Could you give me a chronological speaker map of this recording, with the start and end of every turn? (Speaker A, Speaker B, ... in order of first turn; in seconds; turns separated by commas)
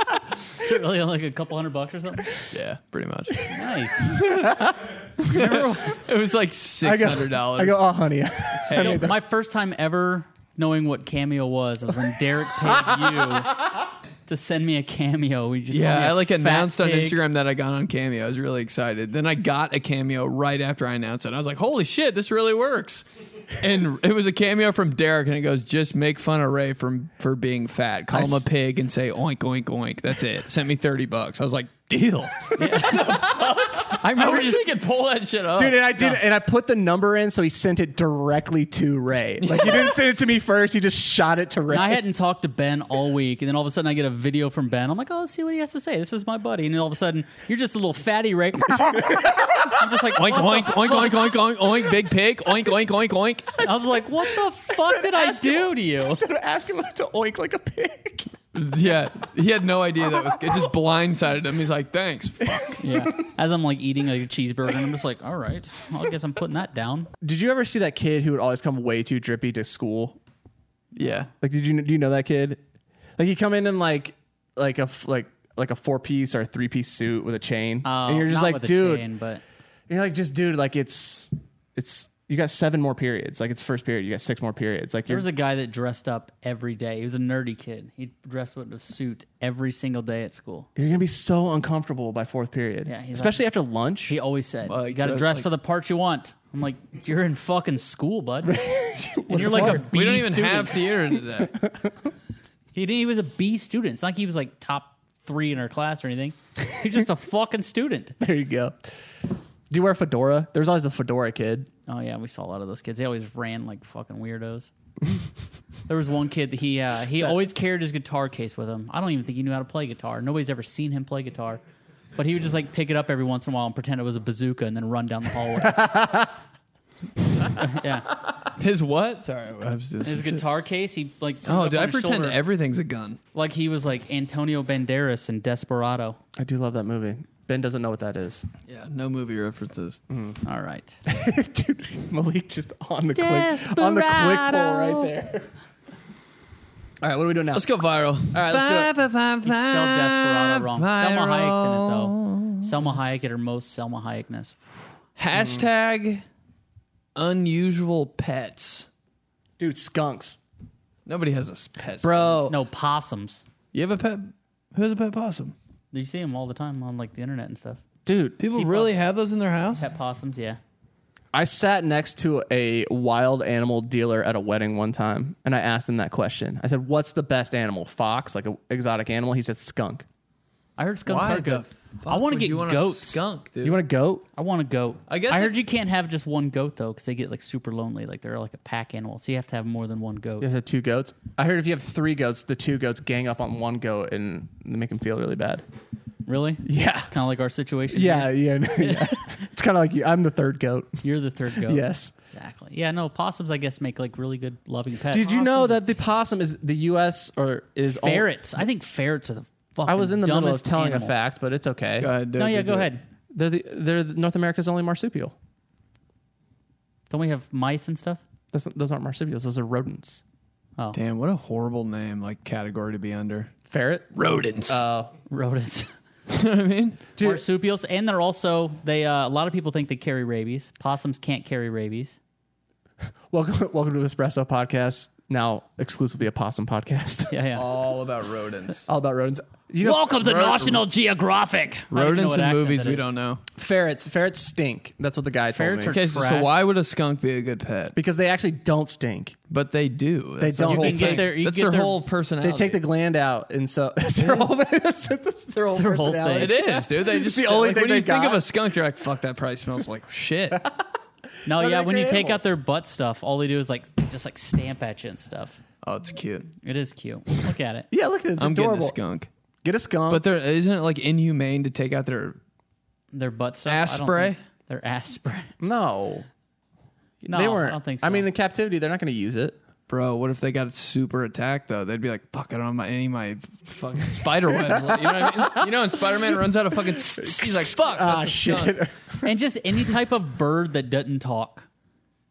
Speaker A: 0.6-2.4, Speaker B: 2.5-3.4, Speaker A: 3.4-4.2, Speaker B: 4.0-7.9, Speaker A: 5.2-6.0, Speaker C: 6.8-9.2, Speaker A: 8.6-13.6, Speaker B: 8.7-9.1, Speaker A: 14.2-17.2, Speaker B: 15.7-35.8, Speaker C: 28.1-28.5, Speaker A: 32.6-34.7, Speaker C: 35.5-42.0, Speaker B: 39.4-40.0, Speaker A: 41.7-51.4, Speaker C: 48.9-50.0, Speaker B: 50.1-53.6, Speaker A: 53.6-56.2, Speaker C: 54.2-58.4, Speaker B: 58.5-62.8, Speaker C: 60.1-60.7, Speaker C: 62.4-63.3, Speaker A: 62.8-67.1, Speaker C: 67.2-70.2, Speaker B: 71.0-71.3, Speaker C: 71.4-72.6, Speaker C: 73.2-79.1, Speaker A: 77.8-79.4, Speaker C: 79.9-85.2, Speaker A: 85.1-90.7, Speaker C: 90.8-94.1, Speaker A: 92.9-93.5, Speaker A: 94.1-98.5, Speaker B: 94.7-95.5, Speaker C: 98.4-99.8, Speaker A: 99.3-100.9, Speaker B: 99.4-101.5, Speaker C: 101.4-101.9, Speaker A: 102.7-108.2, Speaker C: 108.2-108.8, Speaker C: 109.7-111.7, Speaker A: 111.9-114.7, Speaker A: 115.9-121.6, Speaker A: 122.2-126.3, Speaker A: 127.4-128.1, Speaker B: 128.4-130.4, Speaker A: 130.0-132.4, Speaker B: 131.4-133.2, Speaker A: 133.3-136.2, Speaker C: 136.4-138.5, Speaker B: 138.7-140.0, Speaker C: 140.1-140.4, Speaker A: 140.4-141.0, Speaker C: 141.1-145.5, Speaker A: 143.1-145.1, Speaker C: 147.0-147.7, Speaker B: 147.5-152.9, Speaker C: 148.2-148.9, Speaker A: 149.4-154.6, Speaker B: 155.2-156.2, Speaker C: 155.3-155.6, Speaker B: 157.2-158.9, Speaker C: 159.6-160.4, Speaker B: 161.1-162.4, Speaker C: 162.0-162.6, Speaker A: 162.5-163.4, Speaker B: 163.7-165.5, Speaker A: 165.9-167.8, Speaker C: 168.1-168.4, Speaker B: 168.4-169.8, Speaker A: 168.5-168.9, Speaker A: 169.8-170.6, Speaker C: 171.3-180.1, Speaker A: 180.8-183.2, Speaker B: 181.1-183.8, Speaker C: 183.6-184.3, Speaker A: 184.3-190.5, Speaker B: 185.1-185.6, Speaker C: 190.4-195.6, Speaker A: 196.2-199.3, Speaker C: 196.6-197.1, Speaker C: 197.9-201.0, Speaker A: 201.0-205.8, Speaker C: 201.6-202.1, Speaker C: 205.1-208.3, Speaker A: 208.0-211.1, Speaker C: 209.8-212.1, Speaker B: 212.0-212.9, Speaker A: 212.4-213.0, Speaker C: 213.3-215.3, Speaker A: 217.1-218.2, Speaker C: 218.5-220.2, Speaker B: 220.9-223.5, Speaker C: 223.7-224.1, Speaker B: 224.1-224.8, Speaker C: 224.7-225.1, Speaker A: 225.3-225.9, Speaker B: 226.3-227.0, Speaker C: 227.2-227.4, Speaker A: 227.2-232.2, Speaker C: 233.3-237.4, Speaker A: 237.3-237.6, Speaker B: 237.5-238.9, Speaker C: 238.9-240.8, Speaker A: 239.8-243.1, Speaker B: 240.2-240.7, Speaker B: 241.9-243.4, Speaker C: 243.5-246.0, Speaker A: 245.5-246.5, Speaker B: 245.9-247.9, Speaker C: 247.9-249.3, Speaker B: 249.5-252.8, Speaker C: 250.4-251.4, Speaker A: 250.6-252.0, Speaker C: 252.4-258.5, Speaker A: 255.6-256.6, Speaker B: 256.3-260.7, Speaker C: 261.4-262.5, Speaker A: 261.4-265.6, Speaker B: 265.8-266.5, Speaker A: 266.6-267.9, Speaker C: 267.9-268.9, Speaker B: 268.4-269.3, Speaker C: 269.6-270.2, Speaker B: 270.1-272.4, Speaker A: 273.1-275.5, Speaker B: 273.6-274.4, Speaker C: 275.6-276.3, Speaker C: 277.2-279.6, Speaker A: 277.3-278.3, Speaker B: 279.9-288.8, Speaker C: 284.5-285.7, Speaker C: 286.9-289.3, Speaker A: 289.2-291.6